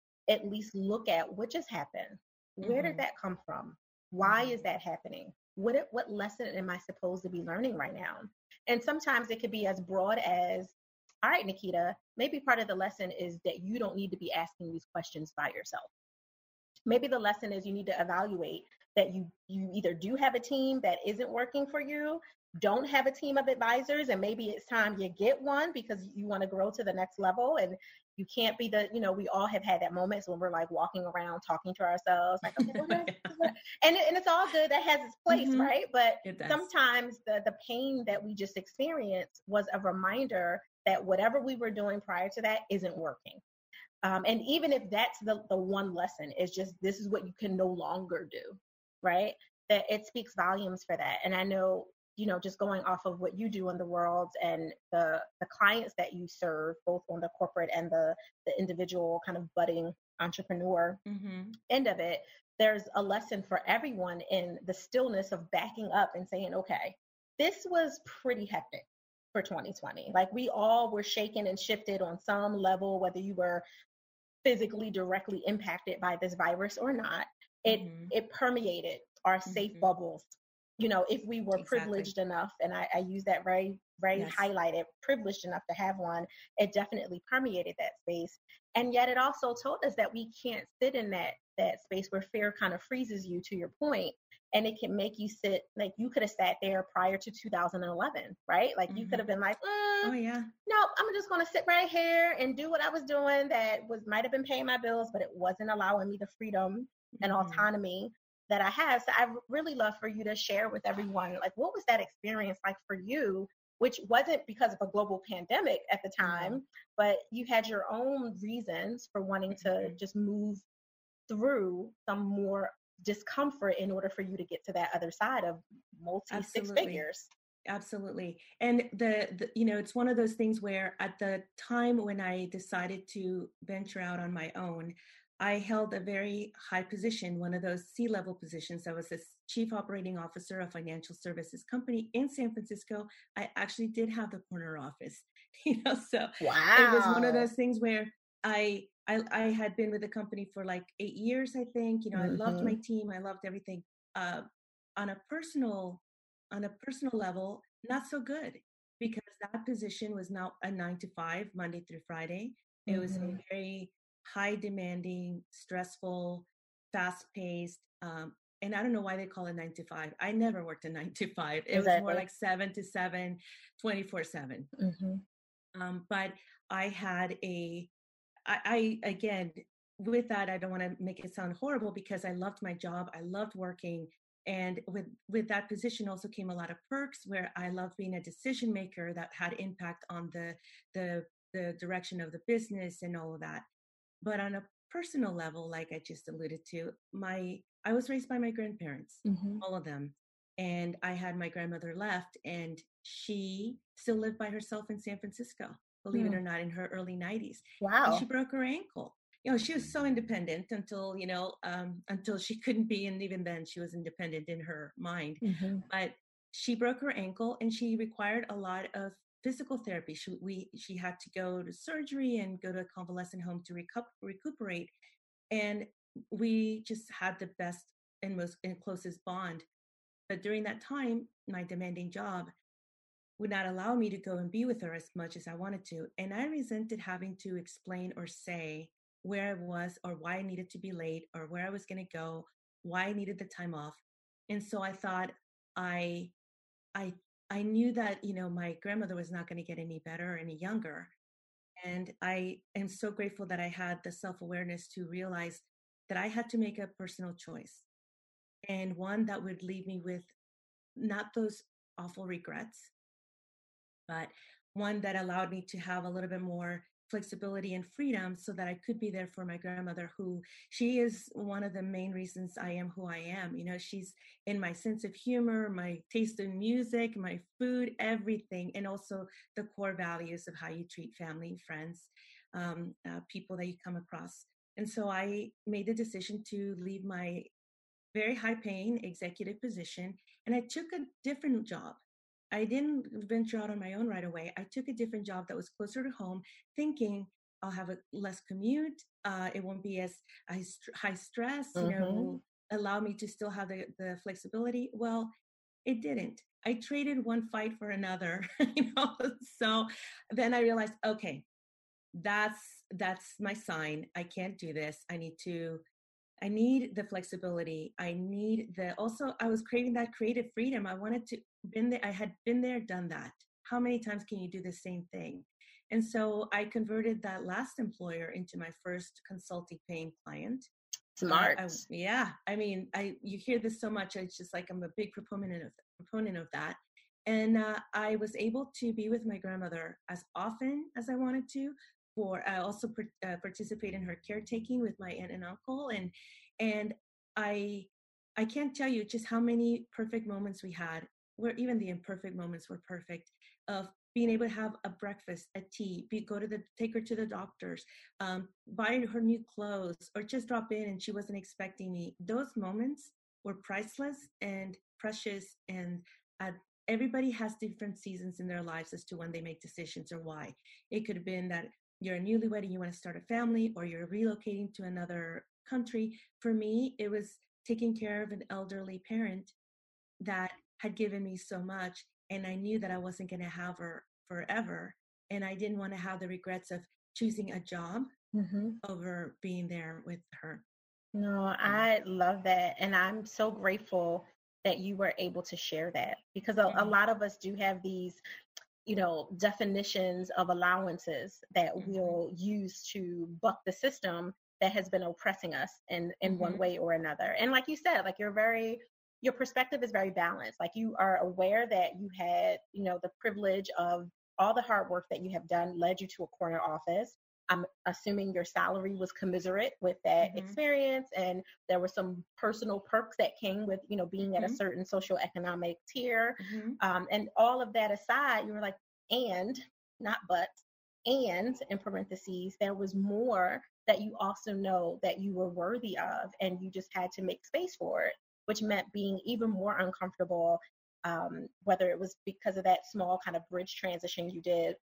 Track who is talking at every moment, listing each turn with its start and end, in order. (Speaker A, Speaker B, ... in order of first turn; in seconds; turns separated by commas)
Speaker A: 0.3-15.9, Speaker B: 2.6-3.0, Speaker B: 4.2-4.6, Speaker A: 16.9-43.4, Speaker B: 32.5-33.5, Speaker B: 35.3-35.7, Speaker B: 36.2-36.7, Speaker A: 44.0-61.0, Speaker B: 61.0-61.6, Speaker A: 61.7-73.6, Speaker A: 74.4-100.1, Speaker B: 77.7-78.1, Speaker B: 79.5-79.9, Speaker B: 81.5-82.1, Speaker B: 84.1-84.4, Speaker B: 98.9-99.2, Speaker B: 100.0-100.5, Speaker A: 100.7-120.6, Speaker B: 107.2-107.6, Speaker B: 116.2-116.6, Speaker B: 119.5-120.0, Speaker A: 121.3-127.3, Speaker B: 126.3-127.0, Speaker B: 127.7-154.4, Speaker A: 146.4-147.5, Speaker A: 152.2-152.8, Speaker B: 155.0-174.7, Speaker A: 162.9-163.4, Speaker A: 171.7-172.2, Speaker A: 174.8-175.2, Speaker B: 175.7-177.9, Speaker B: 178.5-193.6, Speaker B: 194.2-224.9, Speaker A: 199.2-199.6, Speaker A: 206.1-206.4, Speaker A: 207.8-208.2, Speaker A: 215.4-215.8, Speaker B: 225.5-229.7, Speaker B: 230.3-232.5, Speaker B: 233.4-246.3, Speaker B: 246.9-251.1, Speaker B: 251.8-257.9, Speaker B: 258.7-260.3, Speaker B: 261.0-262.9, Speaker B: 264.1-287.5, Speaker B: 288.1-292.0, Speaker B: 292.5-305.3, Speaker A: 301.8-302.3, Speaker B: 305.9-311.4, Speaker B: 312.1-315.8, Speaker B: 316.4-330.7, Speaker A: 331.2-331.8, Speaker B: 331.3-379.5, Speaker B: 380.2-388.1, Speaker A: 388.3-388.8, Speaker B: 388.8-390.6, Speaker A: 391.1-398.2, Speaker B: 396.7-396.9, Speaker A: 398.9-444.8, Speaker B: 401.8-402.2, Speaker B: 406.2-406.6, Speaker B: 420.2-420.6, Speaker B: 424.3-424.6, Speaker B: 426.4-426.8